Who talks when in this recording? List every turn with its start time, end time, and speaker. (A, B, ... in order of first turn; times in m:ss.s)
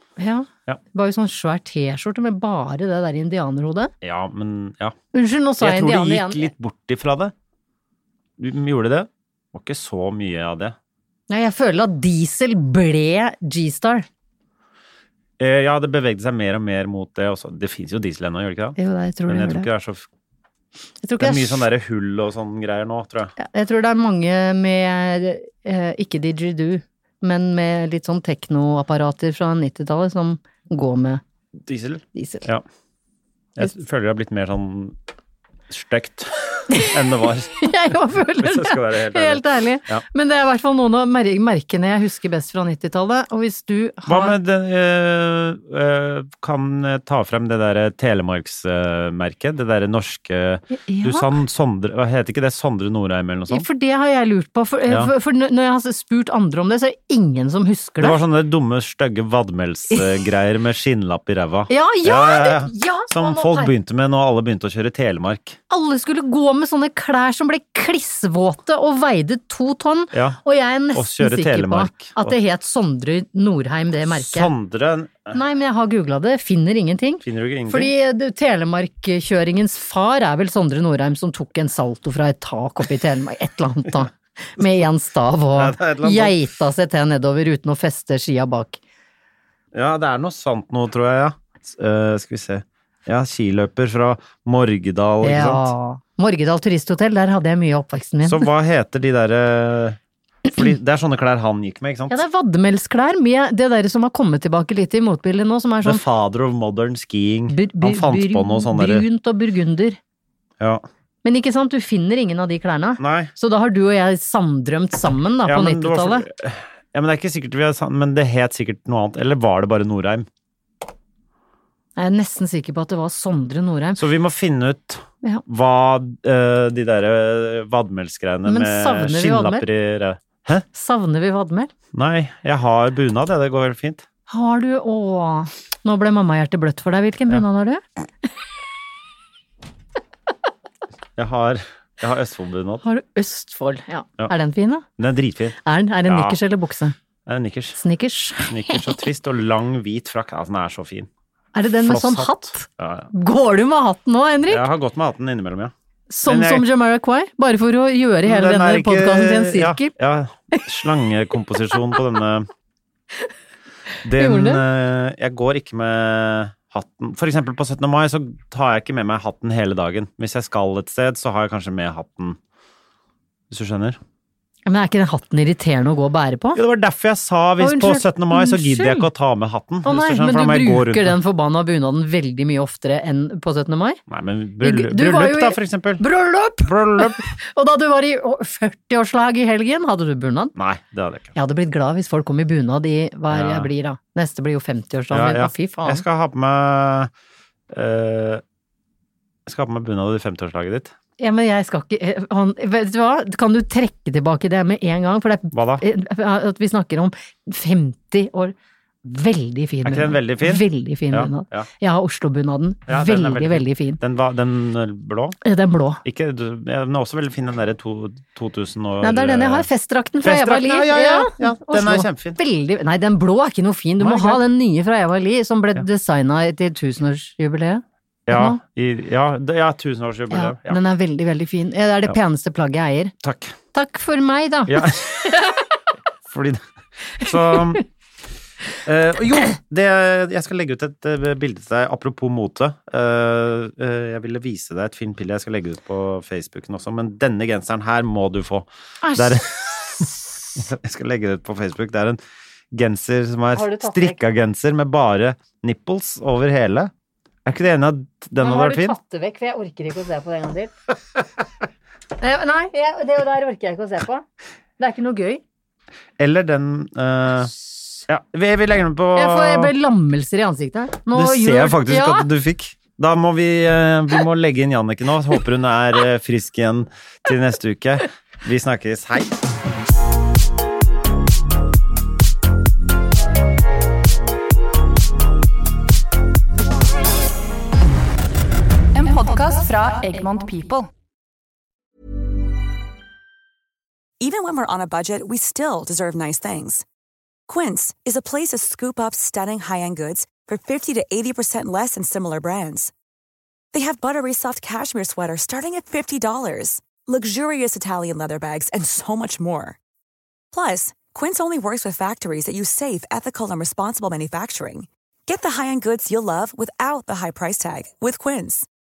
0:00.2-0:03.9 A
0:04.0-0:04.9 B
0:05.1-0:06.5 A
0:05.6-0:07.3 B
0:08.4-0:10.8 B
0:11.3-0:14.0 A
0:15.4-0:20.0 B
0:18.8-0:19.7 A
0:21.0-0:21.6 A
0:21.2-0:23.3 B
0:23.4-0:31.2 A
0:31.6-0:32.6 B
0:32.1-0:32.4 A
0:33.6-0:35.0 B
0:35.7-0:37.7 B
0:37.6-0:44.4 A
0:38.4-0:40.0 B
0:44.1-0:53.7 B
0:50.9-0:51.3 A
0:53.5-0:58.2 A
0:54.9-0:55.1 B
0:58.0-1:05.6 B
1:01.7-1:03.7 A
1:05.7-1:14.5 A
1:10.1-1:10.4 B
1:10.9-1:12.4 B
1:14.1-1:15.4 B
1:15.3-1:28.8 A
1:17.2-1:17.9 B
1:25.6-1:26.4 B
1:29.7-1:35.7 B
1:35.2-1:38.5 A
1:38.2-1:42.2 B
1:42.1-1:46.0 A
1:45.8-1:49.1 B
1:47.5-1:50.0 A
1:51.2-1:56.2 A
1:53.0-1:53.3 B
1:55.4-2:00.3 B
2:02.0-2:04.0 A
2:04.0-2:10.6 B
2:08.5-2:09.6 A
2:10.7-2:11.7 A
2:11.9-2:14.0 B
2:14.3-2:17.8 A
2:21.2-2:22.8 B
2:22.8-2:24.8 A
2:25.0-2:26.4 B
2:25.6-2:27.0 A
2:27.3-2:27.8 B
2:27.8-2:28.9 A
2:28.4-2:31.1 B
2:31.5-2:34.6 A
2:31.8-2:33.1 B
2:34.4-2:35.7 B
2:36.1-2:39.9 A
2:36.2-2:36.7 B
2:38.2-2:42.5 B
2:44.0-2:52.4 B
2:44.2-2:44.6 A
2:53.5-2:54.0 B
2:54.6-2:56.6 A
2:56.5-3:01.2 B
2:57.6-2:59.0 A
2:59.8-3:04.0 A
3:04.1-3:06.0 B
3:04.6-3:10.5 A
3:06.6-3:07.2 B
3:10.5-3:11.3 B
3:11.3-3:16.0 A
3:13.3-3:13.7 B
3:15.1-3:17.1 B
3:17.7-3:18.4 B
3:19.5-3:20.9 B
3:21.2-3:34.0 A
3:25.5-3:25.8 B
3:29.8-3:31.7 B
3:32.9-3:35.4 B
3:35.4-3:36.0 A
3:36.0-3:39.7 B
3:39.0-3:48.6 A
3:40.2-3:42.4 B
3:44.0-3:44.4 B
3:48.3-3:50.8 B
3:50.3-3:53.1 A
3:53.2-3:53.6 B
3:53.7-3:54.9 A
3:54.7-3:55.3 B
3:56.3-3:56.6 B
3:57.2-3:57.8 B
3:58.8-4:12.2 B
4:09.0-4:10.1 A
4:12.7-4:16.9 B
4:13.5-4:14.2 A
4:17.4-4:19.0 B
4:18.4-4:20.7 A
4:22.2-4:24.2 A
4:24.8-4:25.4 A
4:26.2-4:27.5 B
4:28.1-4:29.7 B
4:29.1-4:32.3 A
4:31.1-4:39.4 B
4:48.9-4:50.9 C
4:54.2-4:56.8 D
4:57.5-5:02.9 D
5:03.7-5:09.8 D
5:10.5-5:18.7 D